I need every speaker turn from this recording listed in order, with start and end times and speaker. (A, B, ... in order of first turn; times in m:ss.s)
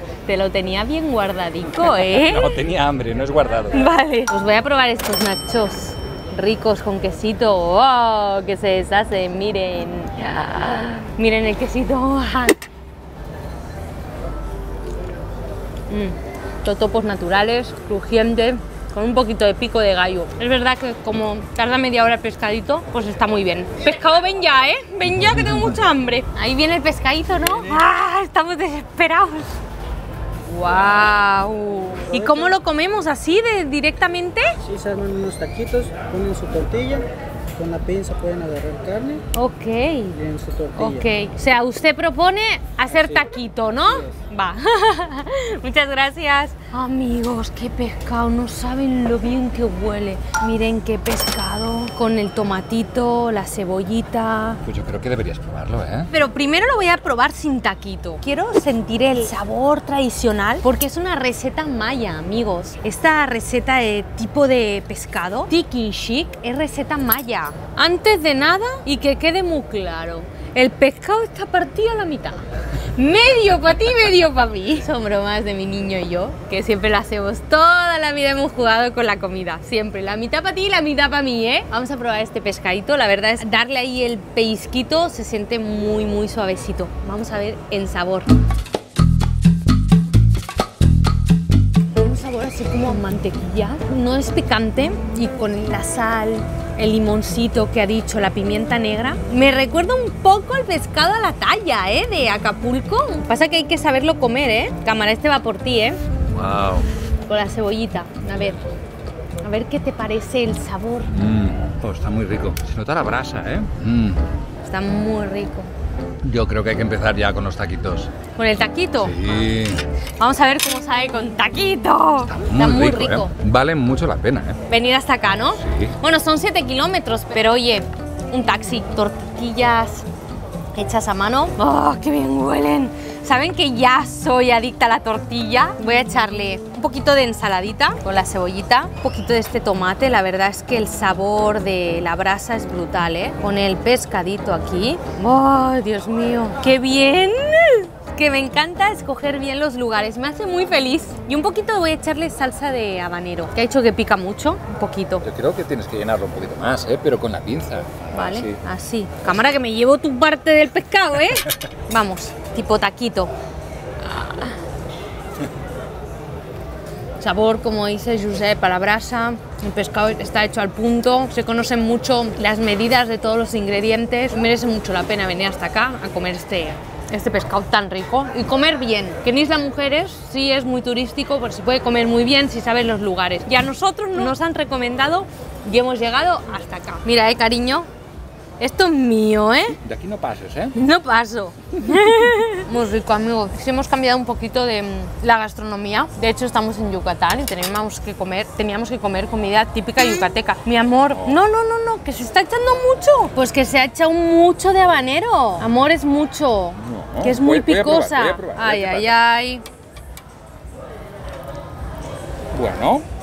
0:00.2-0:02.6 A
0:01.8-0:03.9 B
0:03.7-0:12.7 A
0:15.9-0:29.6 A
0:25.2-0:25.8 B
0:30.5-0:34.6 A
0:32.1-0:32.6 C
0:34.6-0:39.2 C
0:39.3-0:40.2 A
0:40.1-0:41.1 C
0:40.8-0:54.6 A
0:54.6-0:56.1 B
0:56.1-1:12.4 A
1:13.0-1:28.3 A
1:31.9-1:46.0 A
1:46.3-1:46.9 B
1:47.3-1:48.6 A
1:49.4-1:51.1 A
1:51.1-1:54.2 B
1:54.6-1:55.7 A
1:56.2-1:58.1 B
1:58.4-1:59.5 A
1:59.0-1:59.8 B
2:00.2-2:03.3 A
2:02.3-2:04.6 B
2:04.7-2:10.0 A
2:05.6-2:05.9 B
2:10.7-2:35.2 A
2:35.2-2:38.6 B
2:38.1-2:43.3 A
2:44.0-2:44.5 A
2:47.2-3:07.9 A
3:08.6-3:09.8 A
3:09.8-3:10.8 B
3:10.7-3:29.6 A
3:11.9-3:12.2 B
3:21.1-3:21.4 B
3:26.8-3:29.1 B
3:32.5-3:33.0 B